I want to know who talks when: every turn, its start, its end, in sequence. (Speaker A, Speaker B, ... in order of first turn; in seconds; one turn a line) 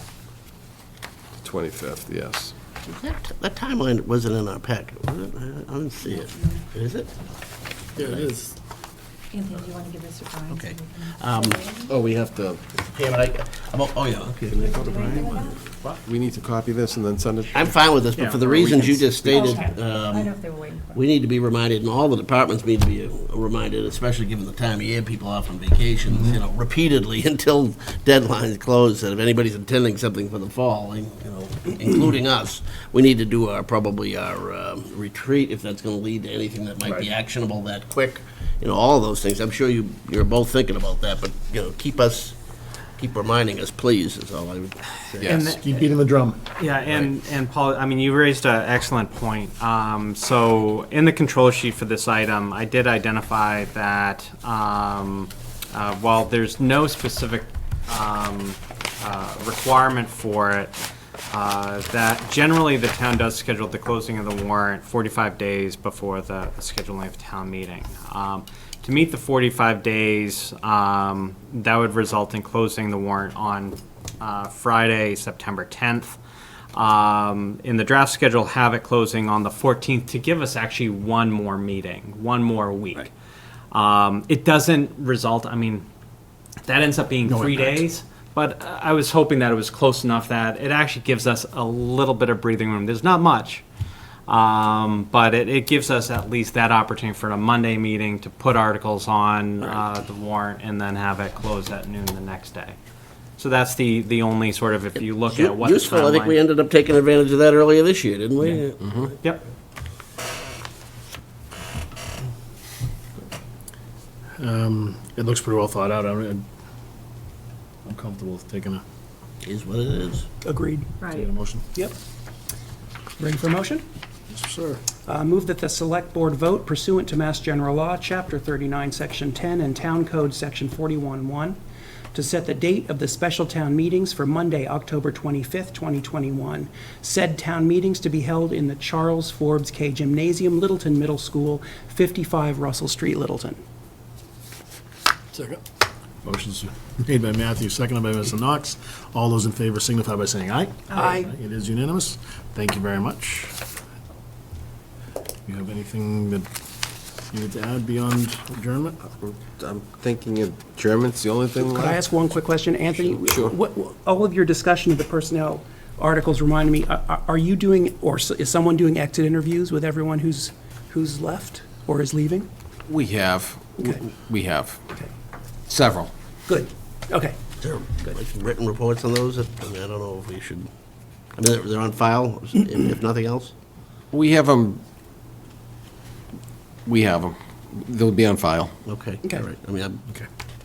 Speaker A: 1.4-2.5
Speaker B: 2.9-7.1
Speaker C: 8.0-8.5
Speaker D: 9.3-10.8
Speaker B: 10.5-11.7
Speaker A: 11.8-12.6
Speaker B: 12.9-14.7
Speaker A: 14.5-15.4
Speaker D: 14.8-15.5
Speaker C: 14.9-15.4
Speaker A: 16.1-17.7
Speaker B: 17.5-42.4
Speaker D: 19.3-20.8
Speaker C: 36.8-37.1
Speaker B: 43.0-45.5
Speaker E: 45.2-45.9
Speaker C: 45.4-46.4
Speaker E: 46.6-60.8
Speaker E: 61.3-76.2
Speaker E: 76.7-83.1
Speaker E: 83.7-85.8
Speaker E: 86.6-93.6
Speaker C: 87.3-87.8
Speaker E: 94.3-102.8
Speaker E: 103.4-106.4
Speaker B: 105.1-109.2
Speaker C: 114.4-116.5
Speaker C: 117.9-118.8
Speaker B: 119.4-120.3
Speaker F: 120.4-121.2
Speaker C: 121.0-121.7
Speaker F: 123.2-123.8
Speaker C: 124.3-124.8
Speaker F: 125.1-131.6
Speaker F: 132.1-143.6
Speaker C: 145.3-145.6
Speaker C: 146.2-153.6
Speaker F: 150.9-151.3
Speaker C: 155.5-156.5
Speaker C: 157.3-159.0
Speaker A: 159.3-162.0
Speaker F: 161.6-172.5
Speaker A: 163.3-163.5
Speaker A: 172.9-174.8
Speaker F: 173.8-174.0
Speaker A: 175.7-176.1
Speaker F: 176.5-177.4
Speaker B: 177.6-180.7
Speaker B: 181.3-183.5
Speaker A: 184.1-184.8
Speaker A: 186.9-188.7
Speaker B: 188.9-190.0